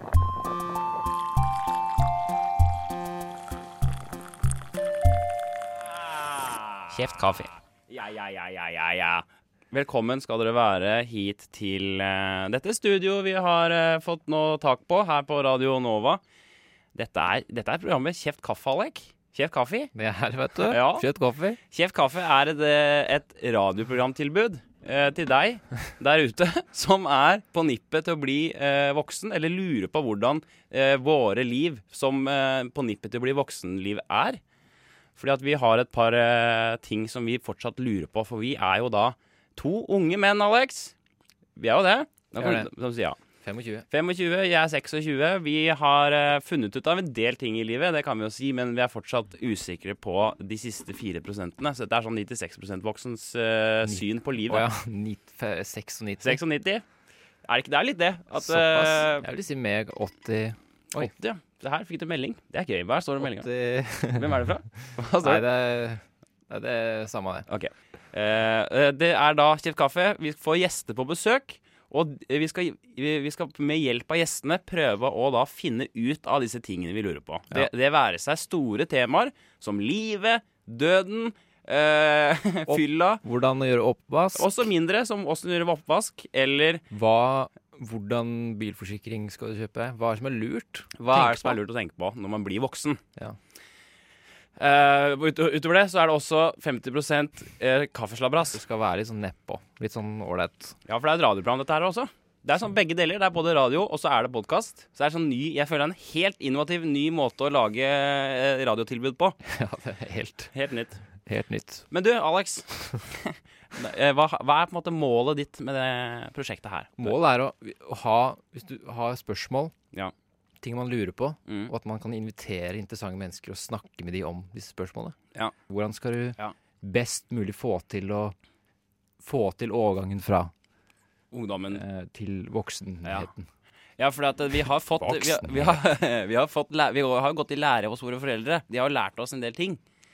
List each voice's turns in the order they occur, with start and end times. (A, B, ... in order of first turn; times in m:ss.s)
0:06.8-0:16.2 A
0:16.9-0:19.9 A
0:19.9-0:21.6 B
0:20.6-0:21.0 A
0:21.7-0:34.4 A
0:35.2-0:40.9 A
0:41.6-0:43.2 A
0:42.4-0:42.7 B
0:43.4-0:43.8 B
0:43.9-0:54.7 A
0:53.8-0:56.4 B
0:56.2-0:56.8 A
0:57.4-0:59.3 A
0:58.4-1:01.1 B
1:00.9-1:03.5 A
1:03.2-1:04.5 B
1:04.1-1:05.4 A
1:05.2-1:07.4 B
1:07.5-1:23.2 A
1:22.7-1:24.4 B
1:24.3-1:26.8 A
1:26.9-1:31.6 B
1:31.0-1:33.0 A
1:34.6-1:38.6 A
1:38.5-1:40.8 B
1:40.8-1:49.4 A
1:49.4-1:50.5 B
1:50.5-1:51.0 A
1:51.2-1:51.8 B
1:51.9-1:57.1 A
1:57.0-1:59.7 B
2:00.6-2:05.2 B
2:01.4-2:01.7 A
2:05.7-2:08.3 B
2:09.2-2:10.5 B
2:11.3-2:11.8 A
2:11.7-2:13.5 B
2:14.0-2:19.8 A
2:15.0-2:15.8 B